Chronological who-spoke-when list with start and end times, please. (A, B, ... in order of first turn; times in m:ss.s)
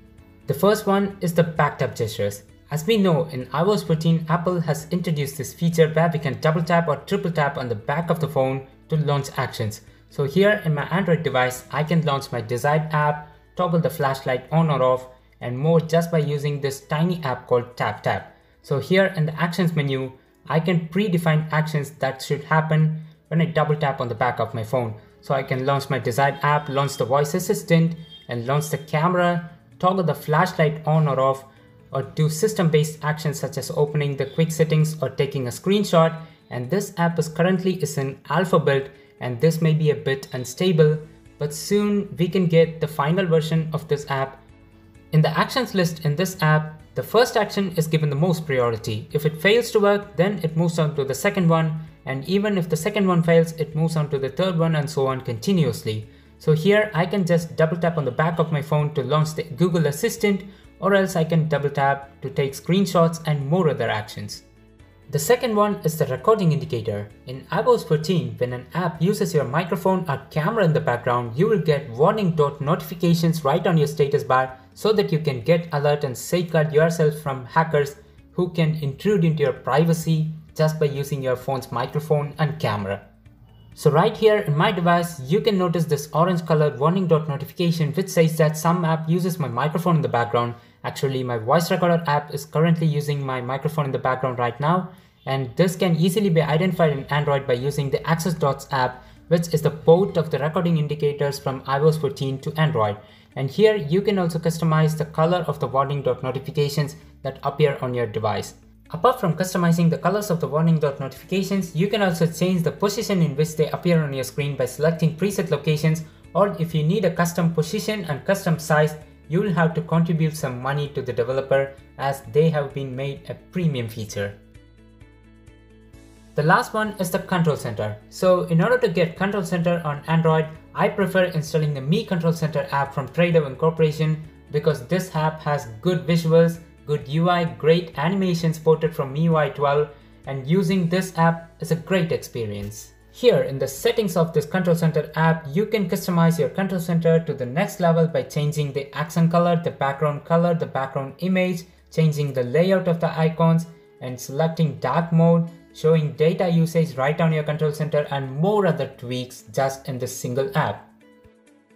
0:00.5-0:44.4 A
0:45.1-1:04.4 A
1:05.1-1:23.0 A
1:23.7-2:04.4 A
2:06.3-2:40.8 A